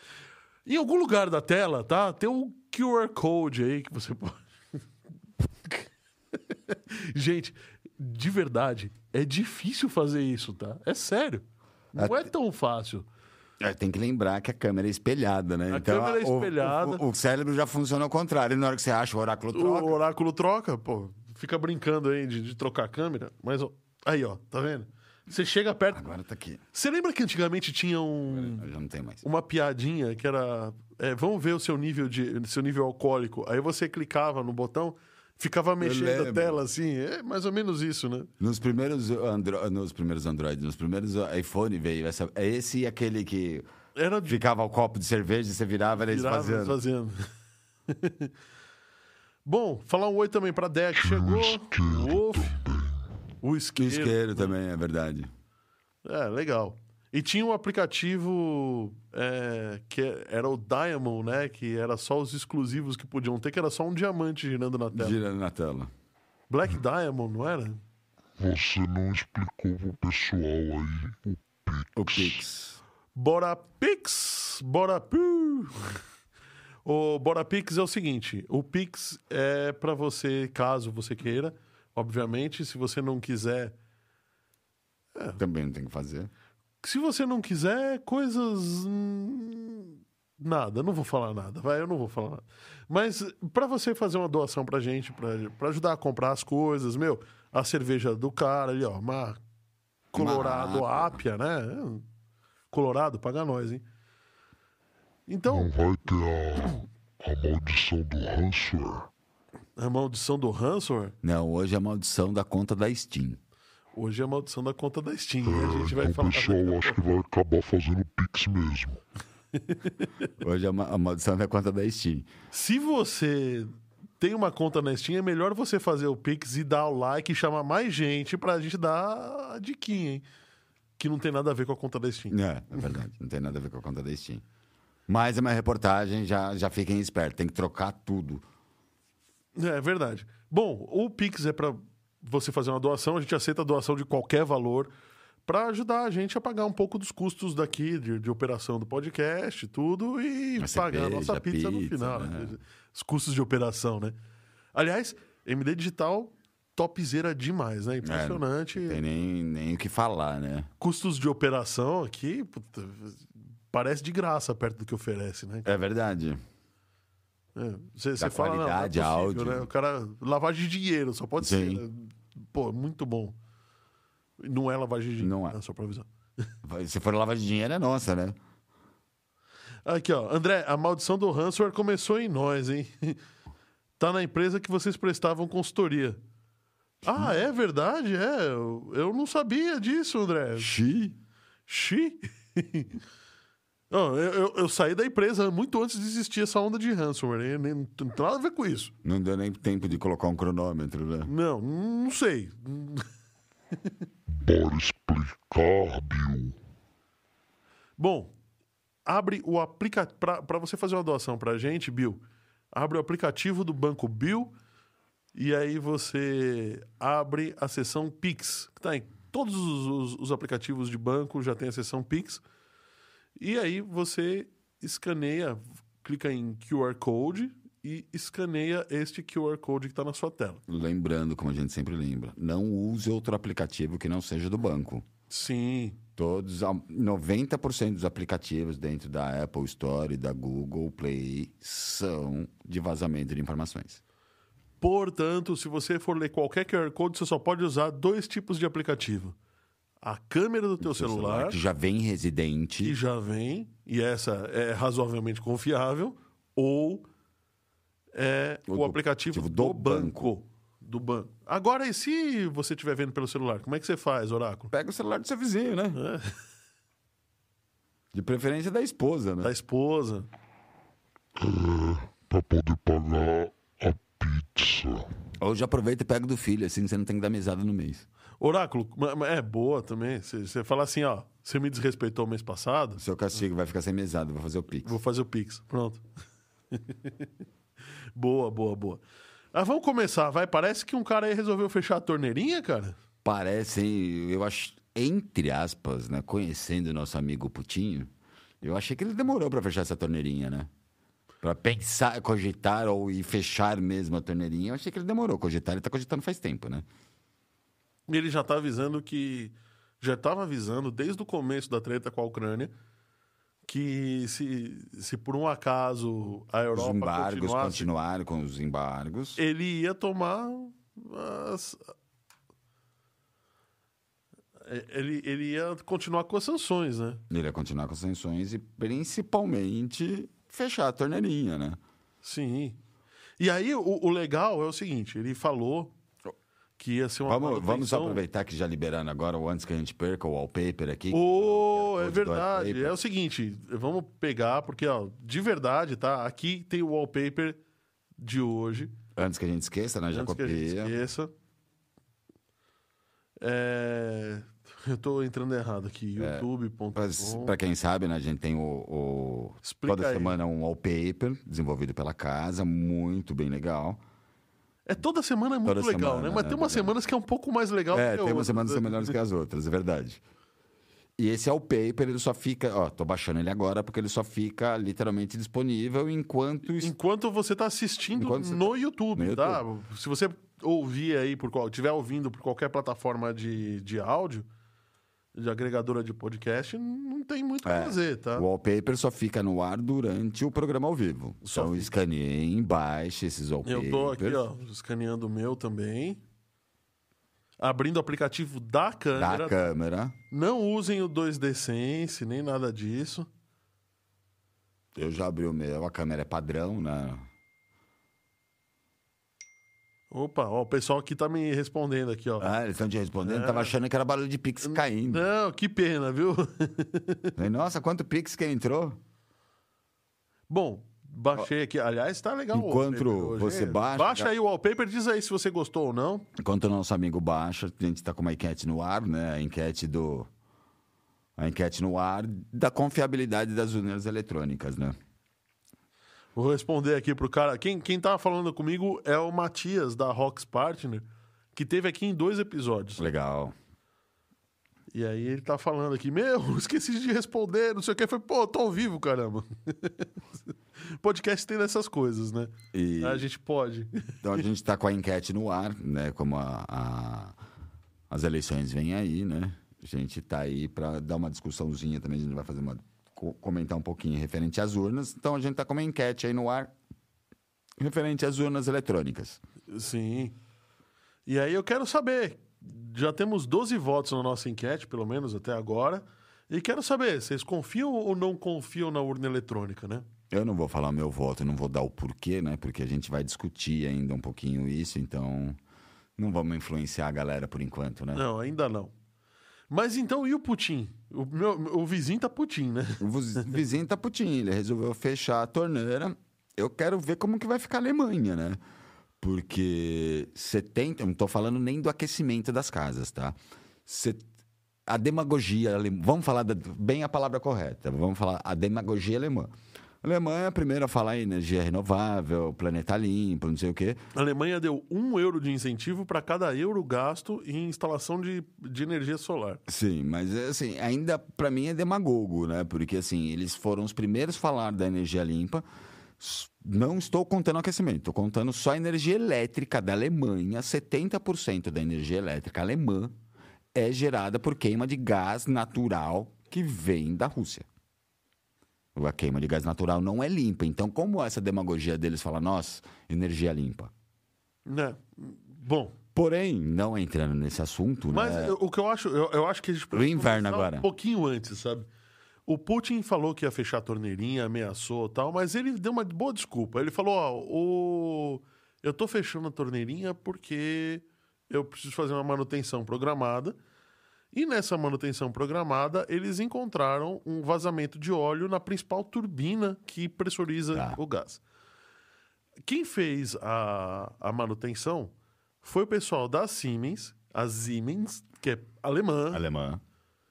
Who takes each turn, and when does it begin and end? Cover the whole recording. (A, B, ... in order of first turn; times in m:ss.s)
0:00.6-0:04.4 A
0:05.6-0:13.0 A
0:12.0-0:12.3 B
0:13.6-0:20.0 B
0:15.7-0:17.0 A
0:19.5-0:26.0 A
0:25.9-0:26.6 B
0:26.7-0:28.7 A
0:28.3-0:29.2 B
0:29.2-0:38.3 A
0:35.8-0:36.6 B
0:38.4-0:43.7 B
0:44.0-0:44.4 A
0:44.2-0:46.8 B
0:46.0-0:47.2 A
0:47.9-0:48.3 A
0:49.4-0:52.6 A
0:50.9-0:53.0 C
0:53.4-0:54.5 A
0:53.8-0:55.3 B
0:56.0-1:05.2 A
1:04.9-1:05.9 B
1:06.5-1:07.8 A
1:08.4-1:12.4 C
1:12.0-1:12.8 B
1:13.1-1:16.0 A
1:16.8-1:23.8 A
1:25.1-1:25.4 A
1:25.4-1:26.3 B
1:26.8-1:39.4 A
1:40.1-1:42.0 A
1:40.1-1:41.2 B
1:42.7-1:43.8 A
1:45.3-1:45.7 A
1:45.5-1:49.1 C
1:49.8-1:51.2 A
1:51.2-1:53.4 B
1:53.9-1:57.0 A
1:55.4-1:59.0 C
1:59.6-2:00.1 A
2:00.4-2:02.3 B
2:02.5-2:10.2 A
2:11.0-2:12.4 A
2:12.3-2:14.4 B
2:15.1-2:18.4 B
2:19.6-2:24.9 A
2:25.4-2:34.2 A
2:30.6-2:32.5 B
2:34.7-2:39.0 A
2:38.0-2:40.7 B
2:40.8-2:45.7 A
2:45.6-2:46.4 B
2:47.6-2:53.4 A
2:48.2-2:49.7 B
2:51.4-2:51.8 B
2:54.4-2:56.1 A
2:55.2-2:55.6 B
2:56.6-2:58.4 B
2:59.8-3:03.2 A
3:04.0-3:06.2 A
3:07.0-3:10.7 A
3:10.6-3:11.2 B
3:11.7-3:13.0 A
3:13.9-3:18.9 A
3:19.0-3:21.3 B
3:21.2-3:23.1 A
3:24.3-3:26.6 C
3:28.0-3:28.3 A
3:29.0-3:34.5 A
3:35.3-3:42.4 A
3:43.4-3:50.6 A
3:50.7-3:55.0 B
3:55.3-3:56.0 A
3:56.2-4:04.0 B
4:04.8-4:09.3 A
4:10.0-4:11.6 A
4:10.8-4:13.0 B
4:12.8-4:17.0 A
4:18.1-4:24.7 A
4:18.7-4:20.3 B
4:24.7-4:26.0 B
4:25.9-4:26.3 A
4:28.1-4:29.5 B
4:29.4-4:30.3 A
4:31.4-4:35.1 C
4:35.4-4:38.0 B
4:38.4-4:43.0 A
4:43.0-4:44.9 B
4:44.8-4:46.0 A
4:46.7-4:47.3 A
4:48.2-4:49.0 A
4:49.5-4:53.0 A
4:53.2-5:00.7 B
5:01.4-5:06.8 B
5:08.1-5:12.7 A
5:13.6-5:17.9 A
5:16.7-5:19.4 B
5:19.4-5:21.9 A
5:24.6-5:27.2 A
5:27.3-5:31.8 B
5:32.2-5:32.8 A
5:33.4-5:35.9 A
5:36.8-5:38.2 A
5:37.2-5:43.0 B
5:41.1-5:47.6 A
5:48.2-5:48.9 A
5:49.2-5:50.9 B
5:50.1-5:51.3 A
5:53.4-5:57.5 A
5:56.2-6:04.0 B
5:59.6-6:00.4 A
6:04.8-6:09.1 A
6:05.6-6:06.9 B
6:07.9-6:10.2 B
6:11.2-6:16.9 B
6:16.8-6:24.5 A
6:18.1-6:19.6 B
6:25.3-6:28.4 A
6:27.6-6:34.4 B
6:31.4-6:31.9 A
6:33.6-6:36.2 A
6:37.6-6:39.6 A
6:39.1-6:40.2 B
6:40.3-6:43.3 A
6:44.9-6:47.2 B
6:50.1-6:52.5 A
6:52.4-6:55.2 B
6:53.2-6:53.7 A
6:54.6-6:57.3 A
6:57.4-6:59.0 B
7:00.5-7:06.3 A
7:02.5-7:04.3 B
7:06.4-7:10.3 B
7:11.4-7:15.0 B
7:16.4-7:23.1 A
7:23.0-7:23.5 B
7:24.9-7:30.1 A
7:30.8-7:34.1 A
7:32.7-7:33.2 B
7:34.2-7:37.4 B
7:38.1-7:46.7 B
7:47.8-7:49.4 B
7:49.7-7:50.3 A
7:51.2-8:00.1 A
8:00.3-8:05.6 B
8:06.2-8:08.2 B
8:08.1-8:08.9 A
8:09.7-8:13.5 A
8:13.0-8:18.6 B
8:19.2-8:24.2 B
8:24.8-8:29.5 B
8:30.0-8:34.0 B
8:34.1-8:39.6 A
8:39.7-8:45.6 B
8:46.2-8:53.1 B
8:53.7-8:57.6 B
8:58.9-9:03.9 B
9:04.6-9:05.9 A
9:06.1-9:08.6 B
9:08.1-9:11.9 A
9:09.9-9:10.9 B
9:12.5-9:23.6 A
9:24.3-9:31.4 A
9:32.6-9:39.4 A
9:39.3-9:39.8 B